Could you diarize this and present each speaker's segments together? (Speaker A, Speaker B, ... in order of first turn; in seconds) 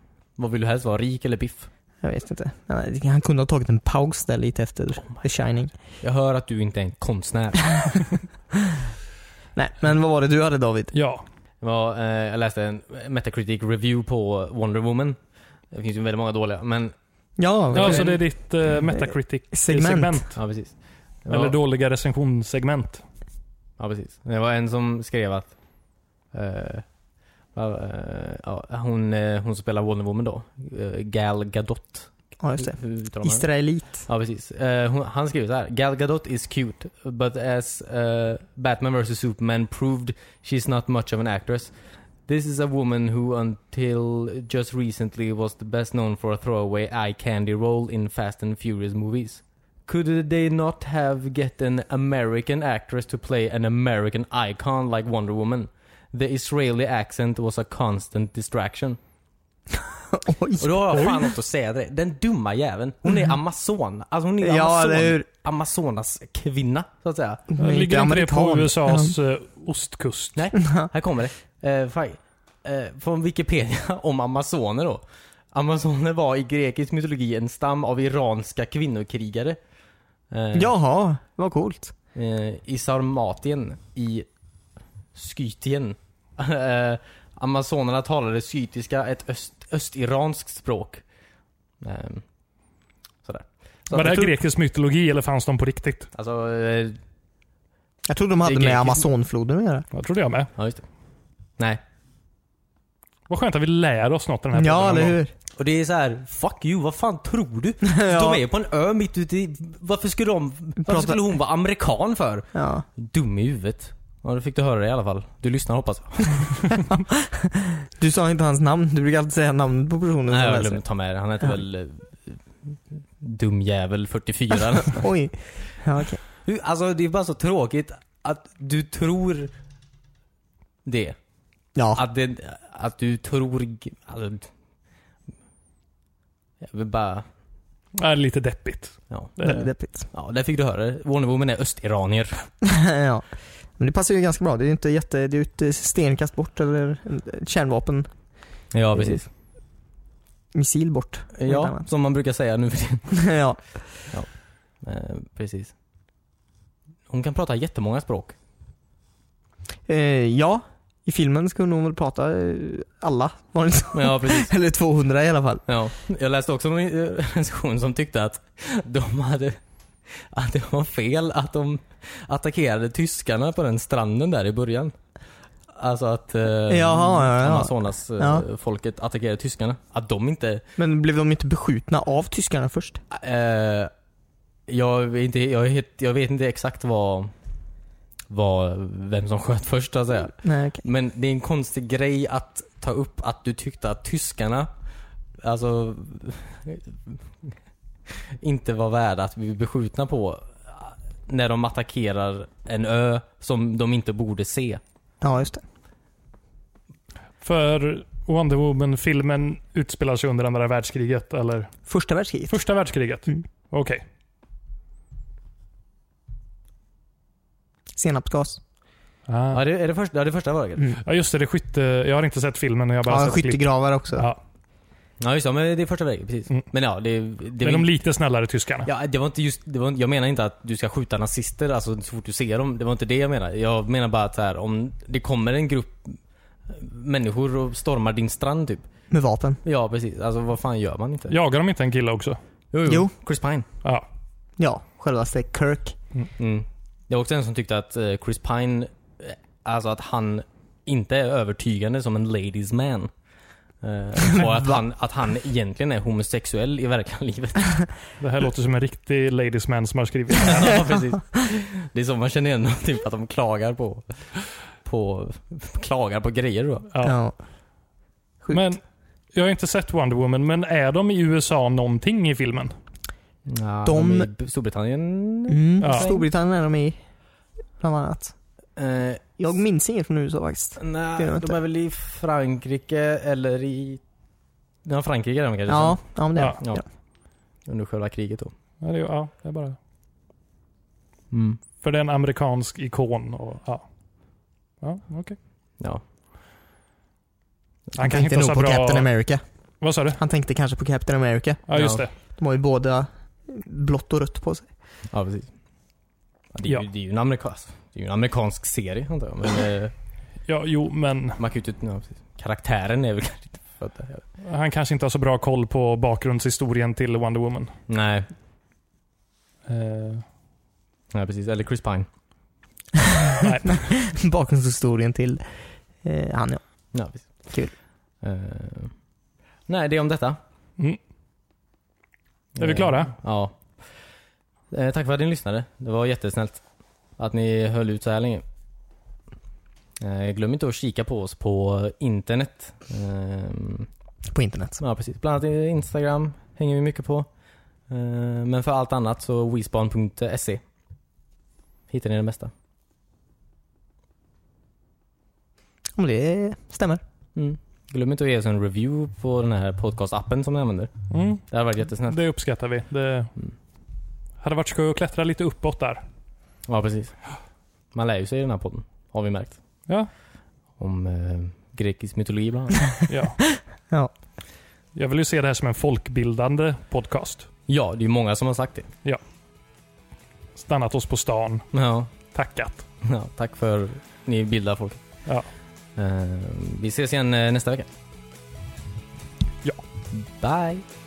Speaker A: 0.4-1.7, 6.0-8.0, 11.6-15.2, 15.7-16.9, 17.8-18.1, 20.4-21.6, 23.8-25.6, 26.3-26.9, 27.5-33.5, 34.1-41.7, 42.3-59.0, 60.6-67.4, 70.4-79.6, 80.3-80.7, 82.2-84.3, 85.1-91.0, 91.8-92.3, 93.2-94.2, 96.1-97.0, 98.5-99.0, 100.6-100.8, 105.6-116.8, 120.3-125.0, 126.5-129.5, 130.8-131.2, 131.9-134.5, 136.6-137.3, 139.1-139.4, 140.1-142.5, 148.7-149.3, 151.3-153.1, 154.1-155.7, 157.1-158.4, 163.9-164.5, 165.7-174.9, 175.7-180.6, 183.1-183.9, 184.7-187.3, 188.3-194.7, 195.4-197.6, 198.1-204.8, 219.5-221.0, 225.2-227.9, 228.8-238.9, 239.6-241.4, 242.7-243.7, 246.4-253.1, 253.8-257.8, 260.4-264.3, 264.8-266.9, 273.4-276.2, 278.8-279.2, 280.8-284.0, 284.8-286.1, 286.6-286.8, 287.6-288.5, 291.3-291.6, 301.7-302.0, 305.1-305.5, 306.5-309.9, 311.4-314.2, 317.9-318.3, 321.1-322.1, 326.9-327.3, 328.2-328.9, 329.7-330.4, 332.6-333.6, 334.7-336.6, 337.2-338.4, 340.0-343.9, 344.8-347.3, 347.9-350.6, 351.9-352.5, 357.4-362.2, 366.7-367.2, 367.9-369.6, 370.8-372.9, 377.7-378.9, 381.7-382.1, 383.0-385.0, 386.0-387.9, 390.1-390.8
Speaker B: 2.0-5.7, 9.6-10.9, 17.4-18.2, 19.0-20.2, 32.4-34.1, 60.1-61.2, 64.4-65.3, 67.5-69.2, 70.5-70.9, 80.5-81.9, 93.9-94.3, 98.1-99.9, 104.5-105.3, 107.8-108.4, 110.8-111.2, 112.5-112.8, 116.9-120.8, 124.9-126.2, 131.8-132.0, 139.4-140.1, 142.6-143.3, 143.8-148.1, 148.9-149.3, 150.5-151.9, 153.1-153.8, 159.9-165.6, 176.7-178.4, 180.8-183.0, 190.4-190.8, 205.2-205.6, 211.9-212.5, 218.0-218.6, 223.1-224.3, 239.1-239.6, 242.9-243.1, 244.6-246.0, 267.0-267.4, 273.9-274.3, 275.5-277.0, 277.8-278.3, 279.4-281.6, 285.7-286.8, 298.0-299.4, 300.2-301.6, 302.1-304.7, 323.4-326.6, 327.4-327.7, 344.3-344.8, 356.0-357.0
Speaker C: 10.9-11.2, 17.7-20.4, 21.3-23.0, 67.6-70.4, 93.9-96.1, 99.9-100.5, 103.3-105.2, 138.0-139.7, 207.4-211.7, 212.5-214.0, 219.3-219.6, 221.0-224.4, 227.6-228.9, 241.3-242.4, 258.2-260.9, 268.5-268.8, 269.3-272.7, 275.8-276.1, 288.8-289.8, 291.8-293.9, 294.8-295.4, 298.0-299.1, 299.8-300.2, 301.7-302.1, 310.5-311.4, 314.4-317.7, 319.7-320.3, 323.4-323.9, 332.6-333.1, 361.1-361.4, 362.0-363.3, 364.4-366.0, 373.1-373.4, 374.9-377.5, 380.6-381.7, 382.3-382.9